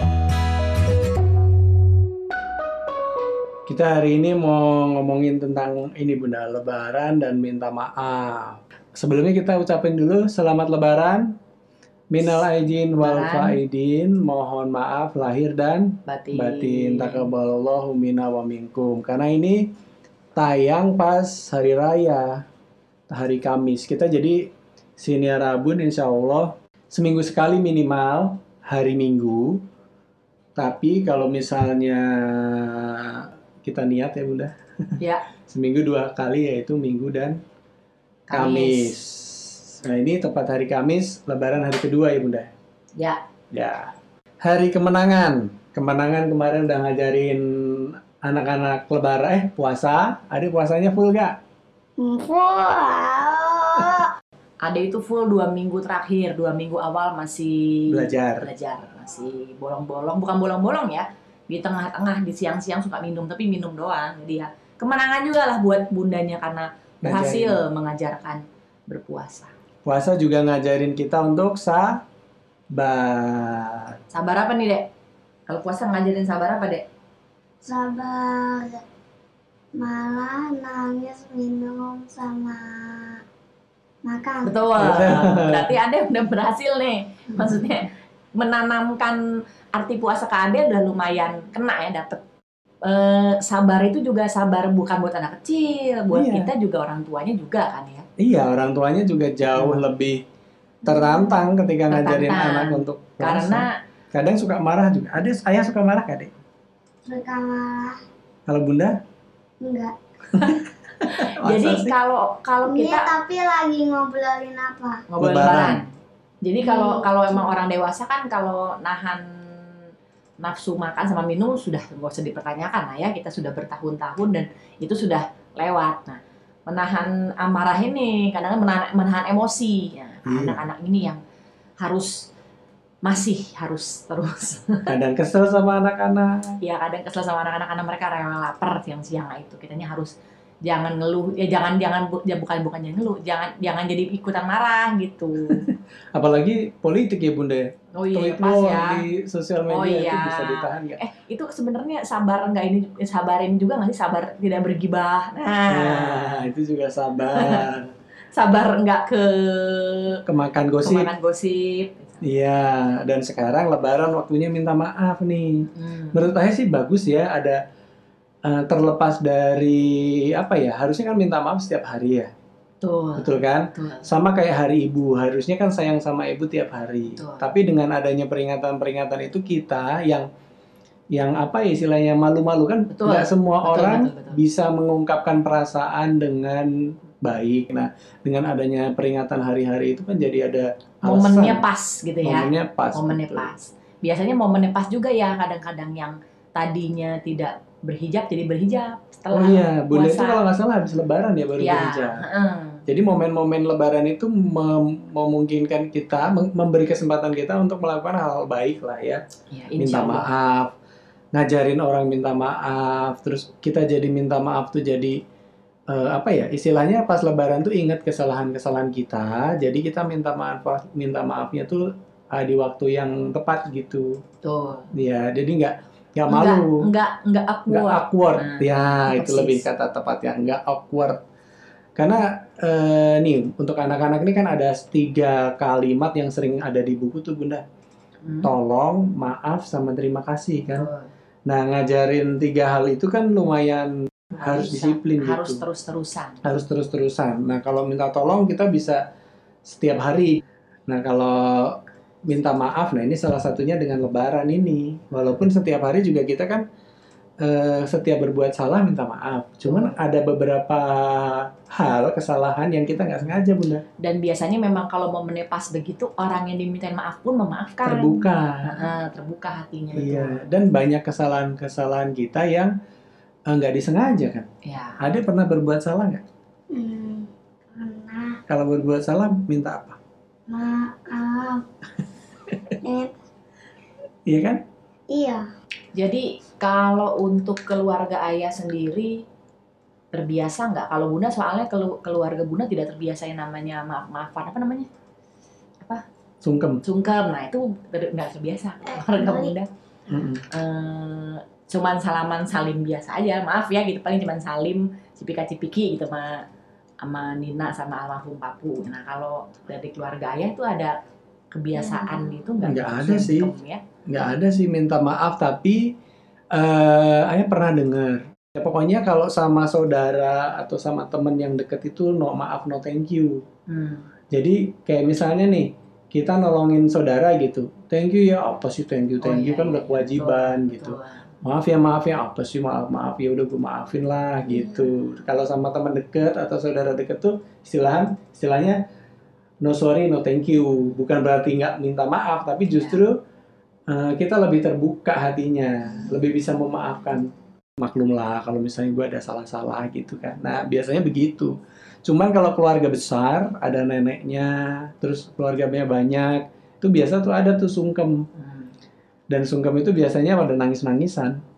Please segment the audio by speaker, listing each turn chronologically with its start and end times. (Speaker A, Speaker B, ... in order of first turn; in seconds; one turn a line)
Speaker A: 3.6-11.3
Speaker A: 12.1-19.6
Speaker B: 13.0-13.6
Speaker B: 16.1-17.3
Speaker A: 20.4-22.4
Speaker A: 23.1-24.4
Speaker A: 25.0-29.6
Speaker A: 30.6-37.4
Speaker B: 35.0-35.2
Speaker B: 38.3-38.9
Speaker A: 38.3-42.5
Speaker A: 43.5-51.4
Speaker C: 52.0-54.1
Speaker B: 54.6-69.5
Speaker A: 57.9-58.5
Speaker A: 67.0-67.6
Speaker A: 69.8-72.0
Speaker A: 72.8-74.0
Speaker B: 74.1-74.9
Speaker B: 75.5-76.8
Speaker C: 77.6-78.8
Speaker C: 79.7-83.2
Speaker C: 84.0-84.7
Speaker B: 84.4-89.2
Speaker A: 84.8-85.7
Speaker B: 89.7-92.2
Speaker B: 92.8-98.0
Speaker A: 96.1-96.5
Speaker A: 98.2-100.2
Speaker B: 99.5-99.9
Speaker A: 100.8-106.3
Speaker C: 100.9-101.3
Speaker B: 101.9-103.7
Speaker C: 107.1-108.0
Speaker A: 108.5-109.0
Speaker C: 109.6-109.9
Speaker A: 110.3-111.9
Speaker B: 110.3-113.1
Speaker C: 112.6-115.0
Speaker B: 115.1-115.8
Speaker A: 115.2-115.8
Speaker B: 116.4-119.8
Speaker C: 116.6-117.5
Speaker B: 120.4-131.2
Speaker A: 130.2-130.6
Speaker B: 131.8-132.3
Speaker B: 133.0-134.9
Speaker A: 134.9-136.6
Speaker B: 136.6-140.1
Speaker B: 140.7-145.7
Speaker A: 145.5-151.0
Speaker B: 148.0-149.1
Speaker B: 149.7-156.5
Speaker A: 155.7-157.9
Speaker B: 157.3-157.7
Speaker B: 158.3-160.2
Speaker A: 160.2-161.1
Speaker B: 160.8-162.2
Speaker A: 162.2-167.6
Speaker B: 165.7-166.3
Speaker A: 168.4-172.3
Speaker B: 172.8-174.1
Speaker A: 173.2-180.2
Speaker B: 177.1-177.5
Speaker A: 181.1-191.6
Speaker B: 182.9-184.4
Speaker B: 191.0-200.4
Speaker A: 192.2-193.5
Speaker A: 199.3-202.2
Speaker B: 201.6-202.8
Speaker A: 202.8-209.2
Speaker B: 209.5-210.3
Speaker A: 209.8-210.7
Speaker A: 211.3-215.2
Speaker A: 215.9-224.2
Speaker B: 224.4-224.9
Speaker A: 224.9-226.8
Speaker B: 226.3-229.7
Speaker A: 227.7-231.2
Speaker A: 231.9-237.6
Speaker B: 238.2-238.5
Speaker A: 238.4-240.9
Speaker B: 240.7-241.1
Speaker A: 241.5-245.6
Speaker B: 244.3-246.4
Speaker A: 246.4-249.0
Speaker A: 249.7-256.6
Speaker A: 257.4-263.8
Speaker B: 259.6-260.0
Speaker B: 264.0-270.5
Speaker A: 267.8-268.8
Speaker A: 269.9-272.7
Speaker A: 273.5-274.4
Speaker B: 274.6-275.0
Speaker A: 275.0-276.2
Speaker C: 276.7-278.4
Speaker A: 278.5-280.0
Speaker C: 280.5-281.6
Speaker C: 282.8-283.1
Speaker A: 284.3-284.6
Speaker C: 285.1-285.4
Speaker B: 285.9-289.2
Speaker B: 290.1-294.9
Speaker A: 296.4-296.8
Speaker B: 296.8-299.7
Speaker C: 298.9-299.5
Speaker A: 300.1-300.4
Speaker B: 300.5-306.4
Speaker B: 307.0-310.9
Speaker B: 311.5-313.8
Speaker A: 312.6-313.5
Speaker A: 314.1-315.9
Speaker A: 316.5-323.4
Speaker B: 323.7-324.1
Speaker A: 324.3-338.8
Speaker B: 329.2-331.2
Speaker A: 339.6-343.2
Speaker B: 342.7-343.0
Speaker A: 343.9-347.3
Speaker A: 347.8-358.2
Speaker B: 358.4-358.7
Speaker A: 359.3-361.4